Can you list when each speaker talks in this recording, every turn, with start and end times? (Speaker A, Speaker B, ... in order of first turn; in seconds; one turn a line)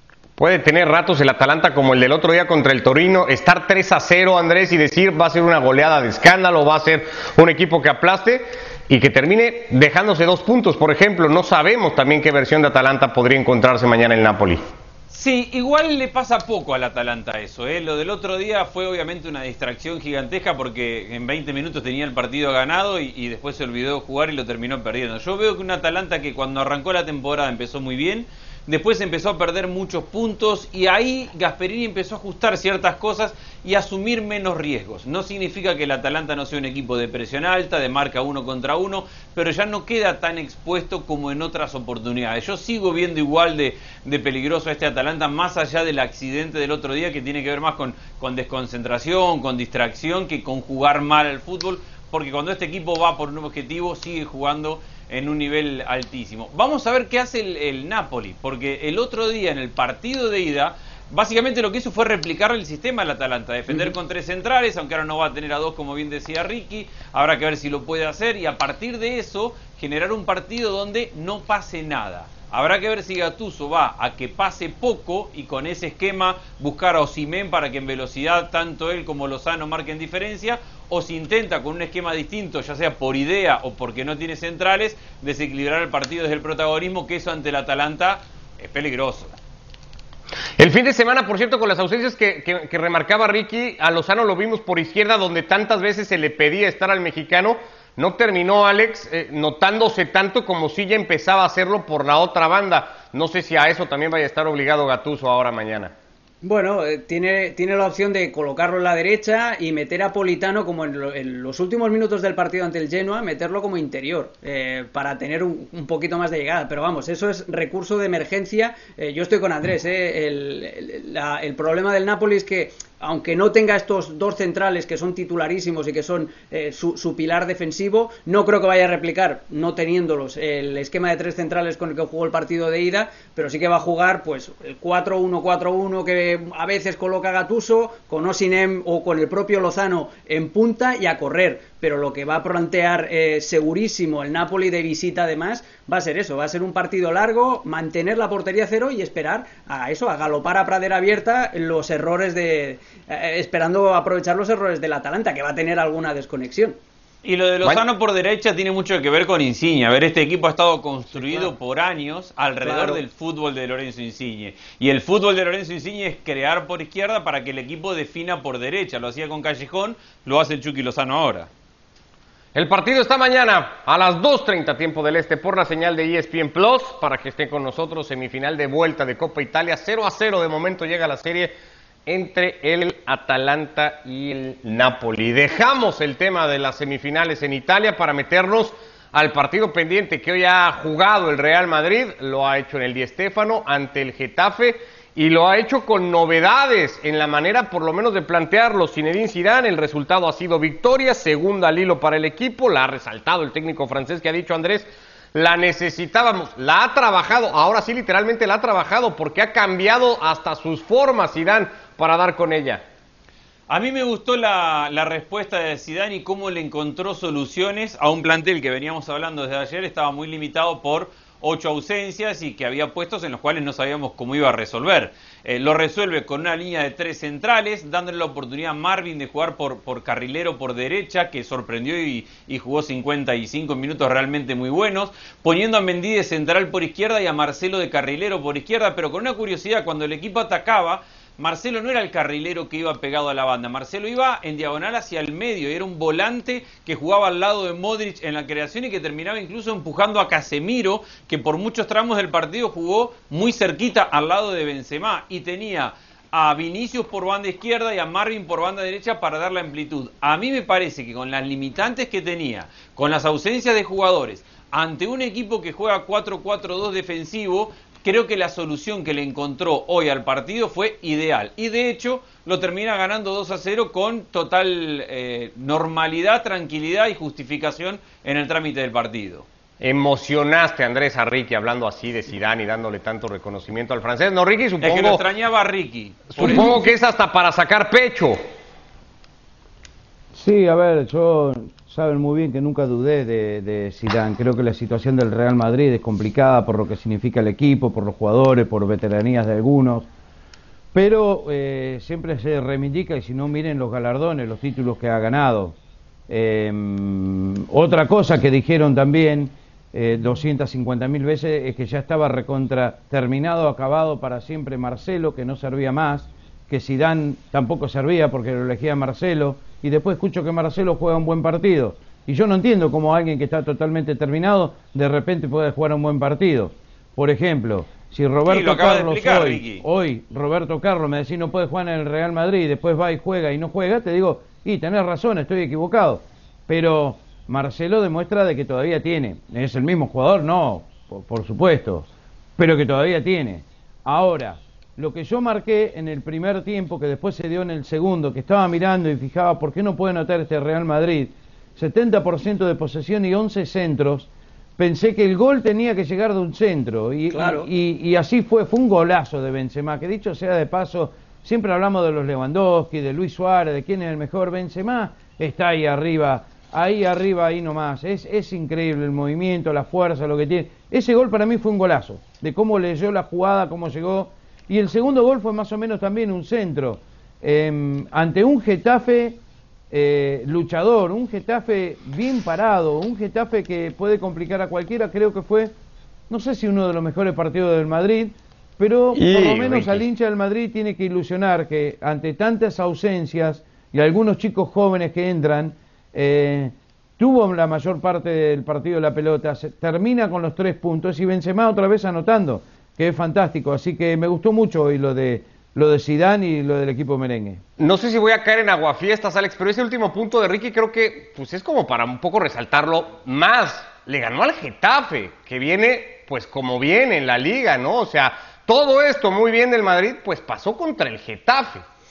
Speaker A: 0.4-14.7
Speaker B: 15.1-89.3
Speaker A: 90.6-105.9
Speaker C: 106.4-156.8
Speaker B: 157.2-171.5
Speaker C: 161.2-161.5
Speaker C: 162.6-163.0
Speaker A: 172.6-181.5
Speaker A: 182.1-212.8
Speaker B: 213.7-279.5
Speaker A: 279.8-285.2
Speaker B: 284.8-286.8
Speaker A: 286.4-288.4
Speaker D: 290.3-300.1
Speaker D: 300.9-305.8
Speaker D: 306.3-379.4
Speaker B: 328.5-329.8
Speaker C: 357.3-357.7
Speaker D: 379.9-385.7
Speaker D: 386.3-407.6
Speaker A: 389.1-390.1
Speaker A: 407.8-421.8